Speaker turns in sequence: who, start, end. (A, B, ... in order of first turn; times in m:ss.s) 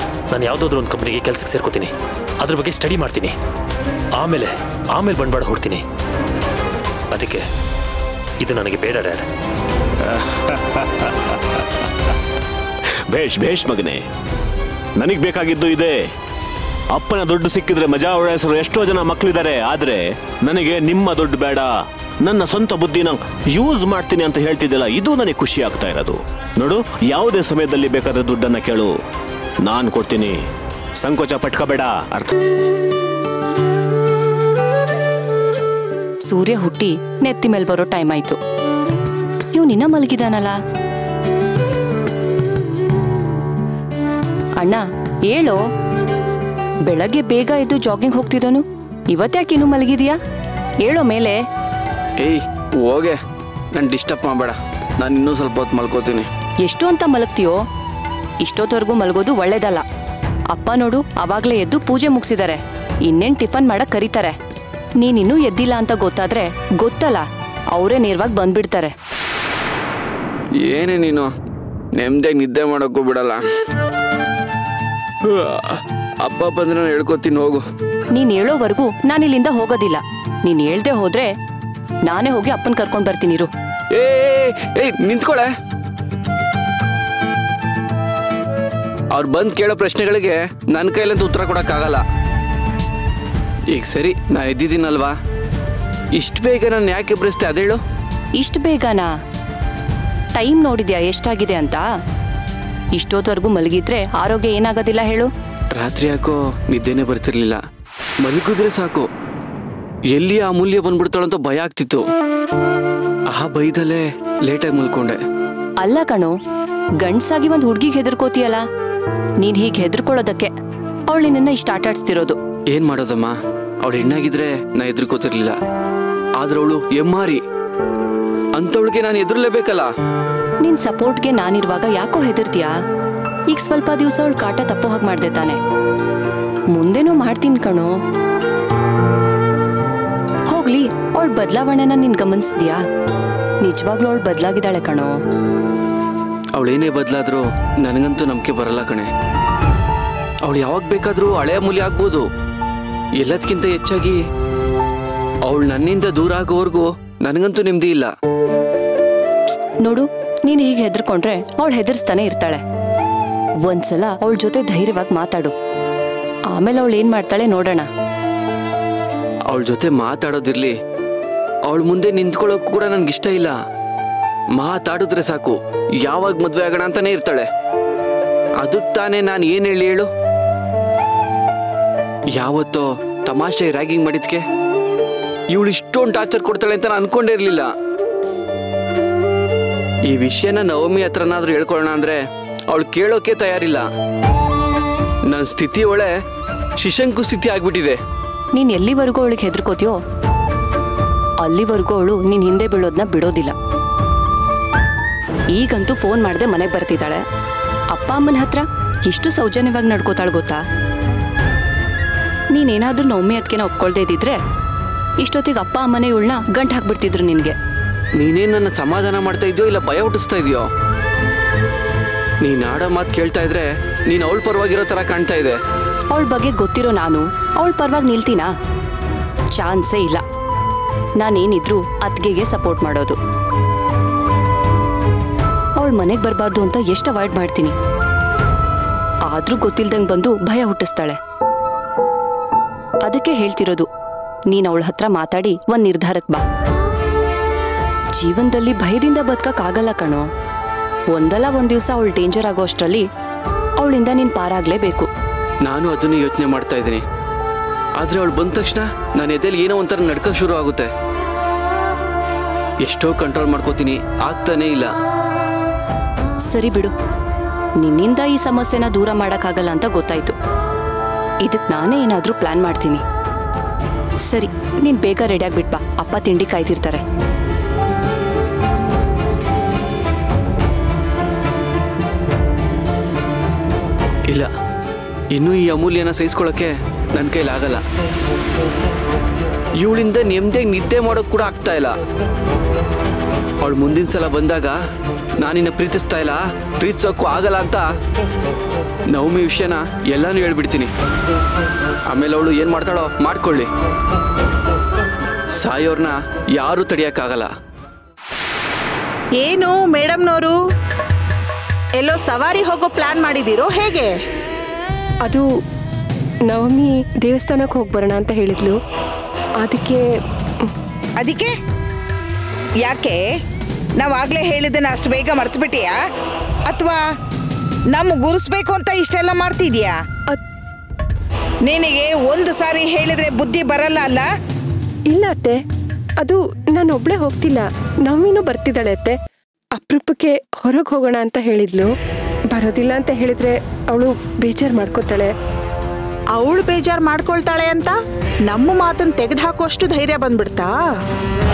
0:00.3-0:03.3 A
0:04.2-0:05.8 A
0:07.1-0:07.4 A
0:08.4-0:09.2 A
0:10.0-0:11.6 B
0:13.1-0:14.0 B
0:15.0-0:16.0 B
0:16.9-0:21.7 B
0:22.2-0:28.9 B
0:29.6-0:30.4 B
0:31.0-0:32.3 B
0:36.3-0:38.4 C
0:39.5-0:40.6 C
0:44.6-0:45.6 C
0:46.9-0:50.2 C
0:50.8-0:51.4 C
0:52.2-0:53.2 D
0:53.7-0:56.3 D
0:56.6-0:57.6 C
0:58.4-0:59.8 C
1:00.5-1:04.4 C
1:05.0-1:08.9 C
1:10.6-1:11.3 D
1:11.9-1:13.4 D
1:15.2-1:17.6 D
1:18.1-1:21.3 C
1:22.0-1:23.5 C
1:23.9-1:25.5 D
1:29.1-1:32.0 D
1:33.7-1:35.2 D
1:36.1-1:37.8 D
1:38.3-1:39.1 C
1:40.3-1:41.8 C
1:42.9-1:45.3 C
1:45.7-1:47.6 D
1:48.2-1:49.1 D
1:50.1-1:52.0 D
1:53.3-1:55.2 D
1:55.8-1:56.3 C
1:57.0-1:58.6 C
1:59.4-2:00.5 C
2:01.1-2:02.4 C
2:02.7-2:05.6 D
2:06.4-2:07.4 D
2:08.6-2:09.9 D
2:10.6-2:12.7 C
2:13.5-2:15.6 C
2:16.7-2:17.9 C
2:20.5-2:22.8 C
2:23.6-2:25.2 C
2:26.5-2:29.1 D
2:30.4-2:32.3 D
2:33.2-2:34.2 D
2:35.4-2:38.1 D
2:39.8-2:42.6 C
2:43.6-2:45.5 C
2:46.5-2:47.9 C
2:49.5-2:50.8 D
2:51.7-2:53.6 D
2:54.6-2:57.5 D
2:58.6-3:00.1 D
3:02.3-3:04.4 D
3:05.5-3:07.7 D
3:10.1-3:13.9 D
3:15.3-3:16.1 D
3:16.8-3:18.0 D
3:18.5-3:20.0 C
3:21.4-3:23.6 C
3:25.5-3:27.2 C
3:27.9-3:30.6 C
3:32.5-3:34.4 C
3:35.2-3:37.5 C
3:38.2-3:40.7 D
3:42.4-3:45.6 D
3:46.1-3:48.5 C
3:49.5-3:50.2 C
3:51.2-3:53.2 C
3:55.8-3:57.7 C
3:59.3-4:01.2 C
4:03.0-4:03.9 C
4:04.5-4:06.4 C
4:08.2-4:10.2 C
4:11.1-4:13.0 C
4:13.8-4:15.1 C
4:15.6-4:17.0 D
4:18.0-4:20.9 D
4:22.8-4:24.9 D
4:26.5-4:26.9 C
4:27.8-4:30.3 C
4:31.4-4:33.0 C
4:34.3-4:37.0 C
4:45.3-4:47.8 D
4:49.8-4:52.0 D
4:53.6-4:54.8 D
4:55.4-4:57.9 D
4:59.1-5:00.9 D
5:02.1-5:03.7 D
5:05.6-5:07.5 D
5:09.4-5:10.5 E
5:12.0-5:14.1 E
5:16.5-5:18.8 F
5:19.6-5:20.0 F
5:21.2-5:21.5 G
5:22.8-5:23.2 G
5:24.0-5:26.0 G
5:26.7-5:27.0 G
5:27.9-5:29.9 G
5:31.7-5:34.3 G
5:35.1-5:35.6 F
5:36.2-5:39.2 F
5:39.8-5:41.9 F
5:42.5-5:45.3 F
5:46.3-5:47.9 E
5:48.5-5:50.7 E